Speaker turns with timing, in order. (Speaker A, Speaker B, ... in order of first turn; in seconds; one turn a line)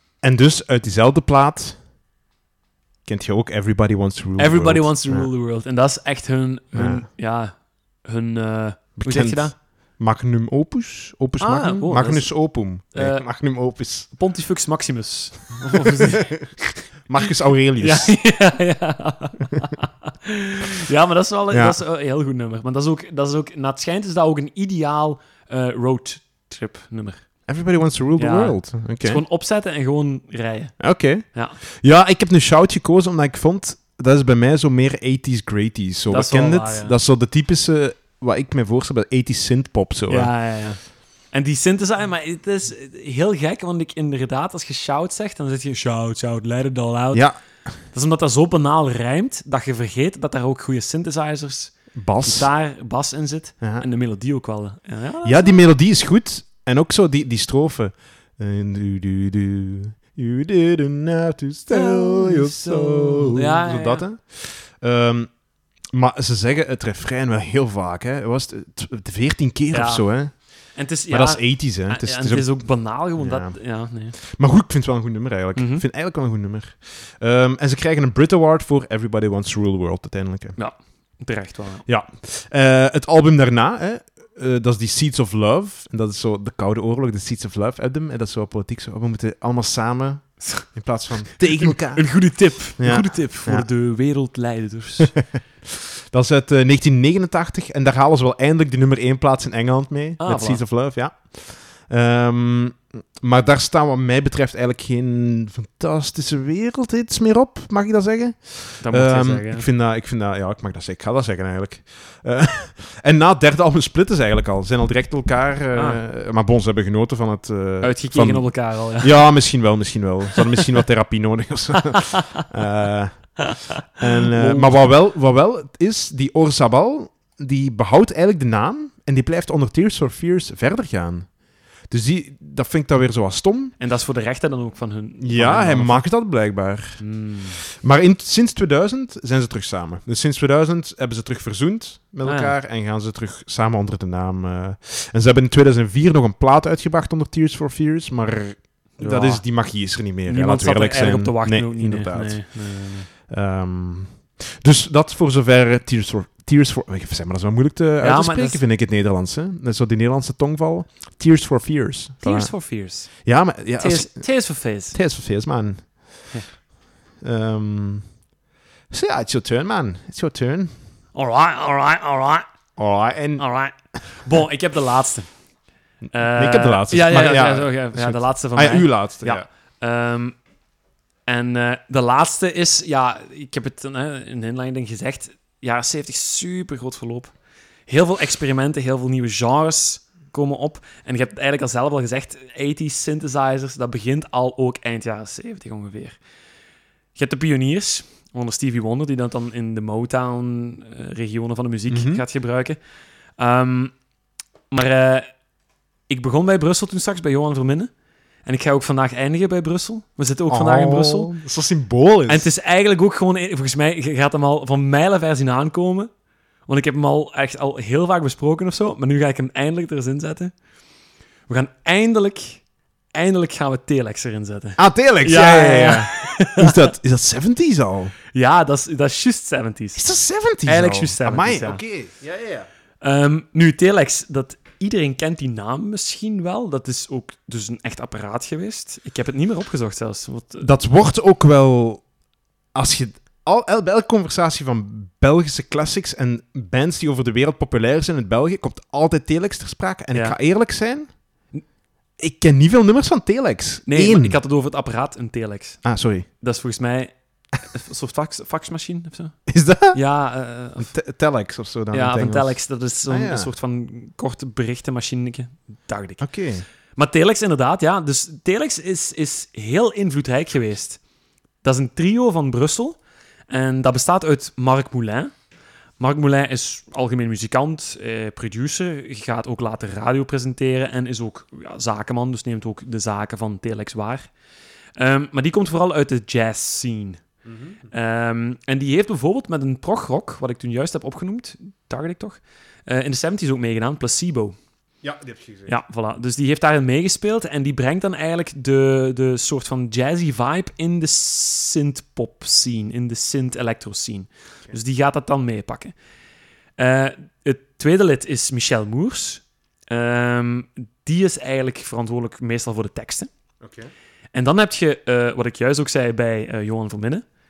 Speaker A: 0.2-1.8
Speaker A: 3.1-5.3
Speaker B: 4.4-7.5
Speaker A: 6.7-7.1
Speaker B: 8.0-9.5
Speaker A: 9.0-14.1
Speaker B: 11.4-13.3
Speaker B: 14.1-16.6
Speaker A: 15.8-18.2
Speaker B: 17.8-27.2
Speaker A: 21.5-21.8
Speaker A: 27.5-29.2
Speaker B: 28.2-31.6
Speaker A: 30.8-40.3
Speaker B: 36.1-37.0
Speaker B: 40.1-40.8
Speaker B: 41.3-47.3
Speaker B: 47.9-55.7
Speaker A: 52.0-52.5
Speaker A: 53.6-53.9
Speaker A: 55.2-65.3
Speaker B: 61.7-64.1
Speaker A: 65.9-70.3
Speaker B: 69.7-74.2
Speaker A: 71.1-73.6
Speaker A: 74.2-80.6
Speaker B: 75.5-75.8
Speaker B: 80.6-81.9
Speaker A: 81.9-93.7
Speaker B: 91.6-95.2
Speaker A: 96.1-131.3
Speaker B: 100.2-100.6
Speaker B: 108.8-109.7
Speaker B: 115.7-116.0
Speaker B: 117.8-119.2
Speaker B: 121.9-122.2
Speaker B: 124.4-124.8
Speaker A: 131.9-133.8
Speaker B: 133.8-136.1
Speaker A: 135.2-137.0
Speaker B: 137.0-137.6
Speaker A: 137.8-162.5
Speaker B: 142.2-142.6
Speaker B: 149.0-149.5
Speaker B: 150.2-153.1
Speaker B: 158.0-158.6
Speaker B: 162.2-163.2
Speaker A: 163.2-164.2
Speaker B: 163.8-165.0
Speaker A: 164.9-166.3
Speaker A: 167.2-168.1
Speaker A: 168.9-170.7
Speaker B: 171.1-172.5
Speaker A: 172.8-173.4
Speaker B: 173.4-175.3
Speaker B: 176.1-180.4
Speaker A: 176.2-179.5
Speaker B: 181.3-187.3
Speaker B: 187.9-196.2
Speaker B: 197.2-202.8
Speaker A: 201.9-202.2
Speaker B: 203.4-203.9
Speaker B: 204.7-205.3
Speaker B: 206.1-207.9
Speaker B: 208.4-211.3
Speaker A: 210.5-212.5
Speaker B: 212.3-216.1
Speaker B: 216.7-220.5
Speaker B: 221.5-222.6
Speaker B: 223.1-226.7
Speaker A: 224.8-228.2
Speaker B: 228.3-230.1
Speaker A: 230.0-232.7
Speaker B: 230.6-231.8
Speaker B: 233.0-240.7
Speaker A: 240.6-242.0
Speaker A: 242.8-251.1
Speaker B: 250.1-250.4
Speaker A: 252.2-254.4
Speaker B: 253.9-255.8
Speaker A: 255.8-256.3
Speaker B: 256.4-257.1
Speaker B: 257.7-259.4
Speaker A: 259.5-260.0
Speaker B: 259.9-260.9
Speaker A: 260.8-263.5
Speaker B: 261.9-266.2
Speaker A: 266.2-266.6
Speaker B: 267.0-271.0
Speaker B: 271.6-273.0
Speaker B: 273.5-275.3
Speaker B: 276.0-284.3
Speaker B: 285.0-287.2
Speaker A: 287.4-287.9
Speaker B: 287.9-294.6
Speaker A: 295.0-295.8
Speaker B: 295.7-305.9
Speaker B: 306.8-313.3
Speaker A: 313.6-313.9
Speaker B: 314.3-317.2